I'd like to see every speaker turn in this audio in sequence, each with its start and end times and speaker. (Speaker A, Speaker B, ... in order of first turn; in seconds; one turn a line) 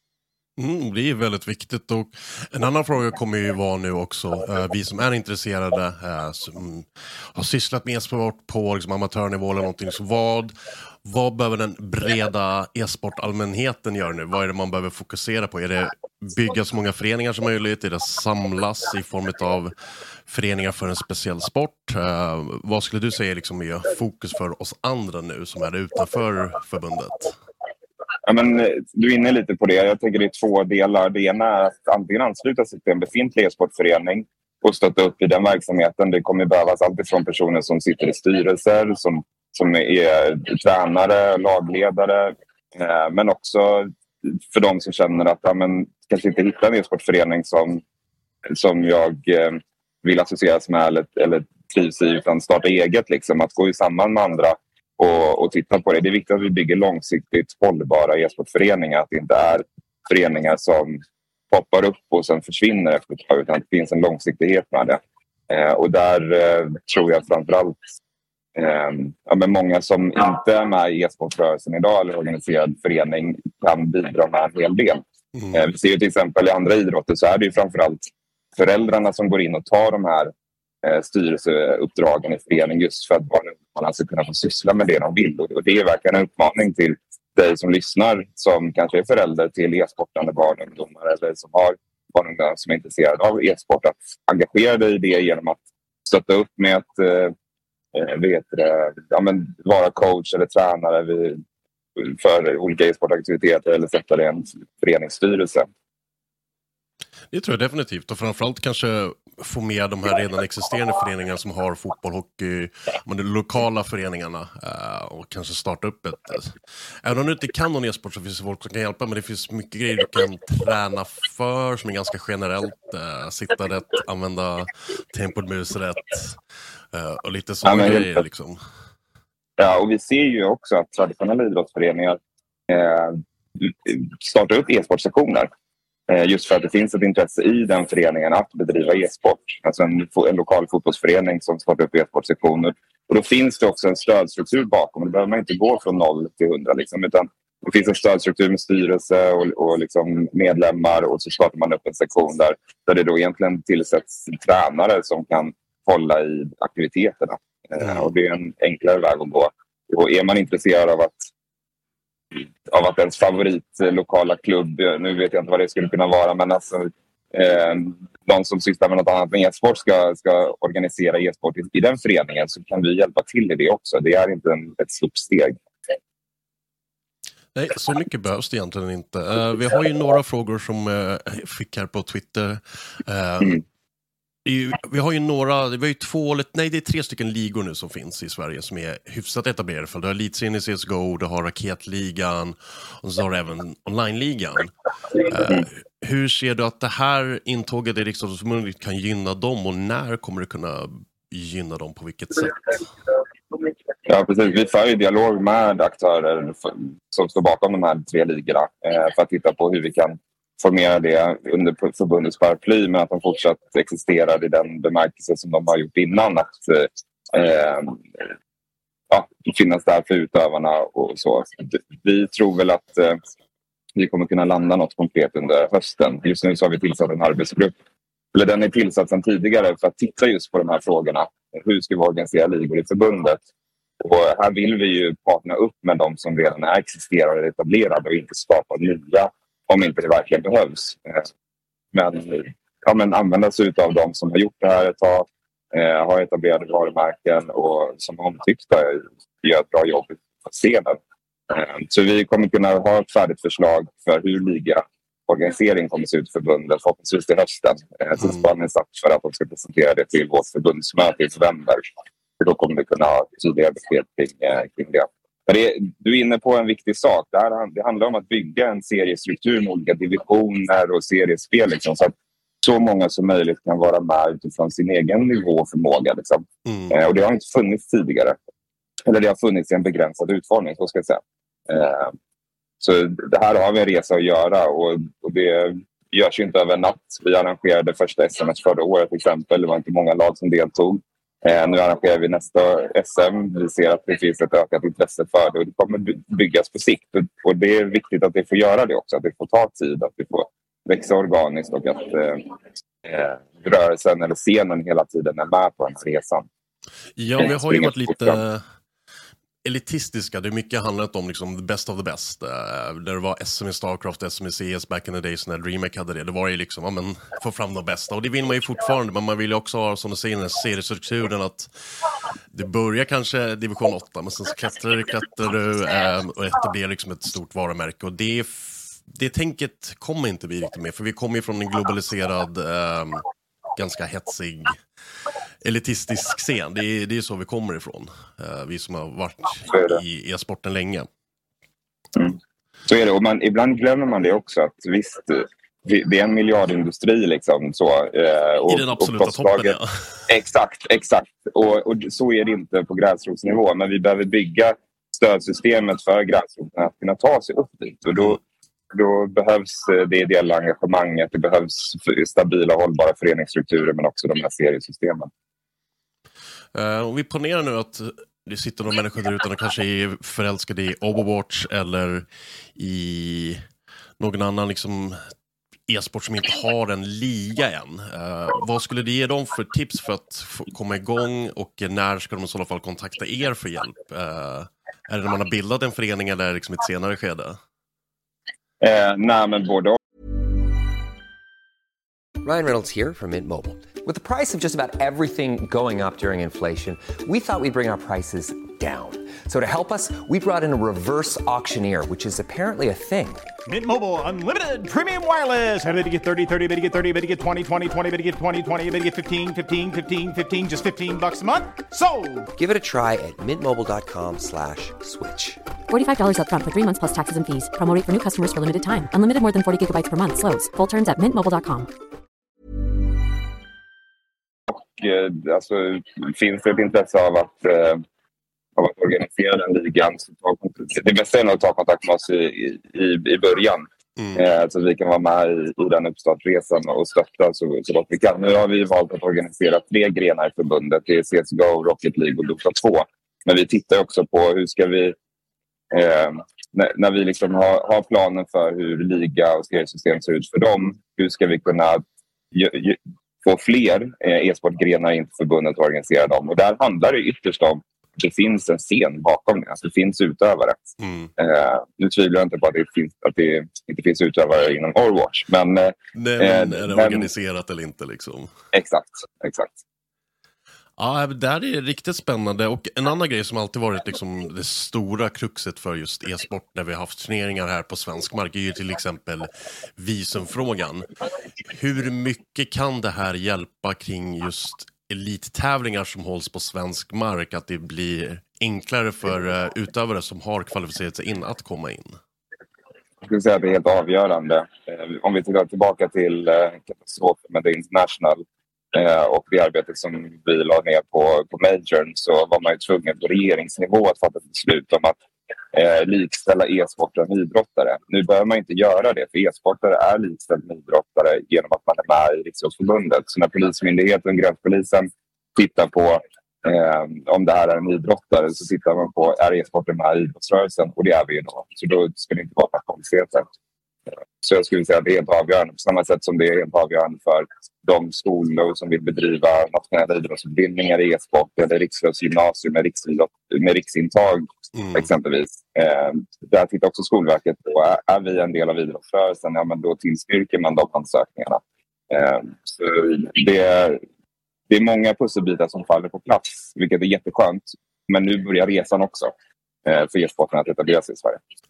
Speaker A: 0.6-10.5
Speaker A: 11.0-19.7
Speaker A: 20.3-27.4
Speaker B: 28.2-47.8
Speaker B: 48.5-67.9
Speaker B: 68.5-97.3
Speaker A: 75.3-75.6
Speaker B: 97.9-101.4
Speaker B: 102.0-105.7
Speaker A: 107.3-126.4
Speaker A: 126.9-128.6
Speaker B: 127.6-128.2
Speaker B: 129.6-135.5
Speaker B: 136.1-161.3
Speaker A: 157.8-158.1
Speaker B: 162.3-175.6
Speaker A: 177.5-183.6
Speaker A: 184.4-202.8
Speaker B: 204.1-218.3
Speaker B: 219.1-223.2
Speaker B: 223.9-227.7
Speaker B: 228.3-233.4
Speaker B: 234.0-241.2
Speaker B: 241.9-251.0
Speaker B: 251.5-261.9
Speaker A: 258.2-258.4
Speaker B: 262.4-278.4
Speaker A: 276.6-276.9
Speaker B: 279.1-282.1
Speaker B: 282.8-302.5
Speaker B: 303.0-306.5
Speaker A: 307.2-308.6
Speaker B: 307.4-308.4
Speaker A: 309.6-321.7
Speaker A: 322.5-333.2
Speaker A: 333.8-334.8
Speaker A: 335.6-341.1
Speaker B: 339.7-340.0
Speaker B: 342.1-349.8
Speaker A: 348.7-349.9
Speaker B: 350.3-358.4
Speaker B: 358.9-365.3
Speaker A: 366.7-372.2
Speaker A: 372.8-373.6
Speaker A: 374.2-375.2
Speaker A: 375.9-387.6
Speaker B: 388.8-390.0
Speaker C: 392.4-403.5
Speaker D: 403.7-412.5
Speaker C: 412.6-415.6
Speaker E: 415.9-421.9
Speaker B: 424.7-428.0
Speaker B: 428.8-445.1
Speaker A: 434.2-434.4
Speaker B: 445.9-460.8
Speaker A: 461.0-461.3
Speaker B: 461.4-467.3
Speaker A: 466.1-468.5
Speaker B: 468.7-469.8
Speaker A: 471.0-481.1
Speaker A: 481.6-492.1
Speaker B: 493.2-505.1
Speaker B: 505.7-523.5
Speaker B: 524.4-544.0
Speaker A: 534.7-535.1
Speaker B: 544.7-549.3
Speaker B: 549.8-551.4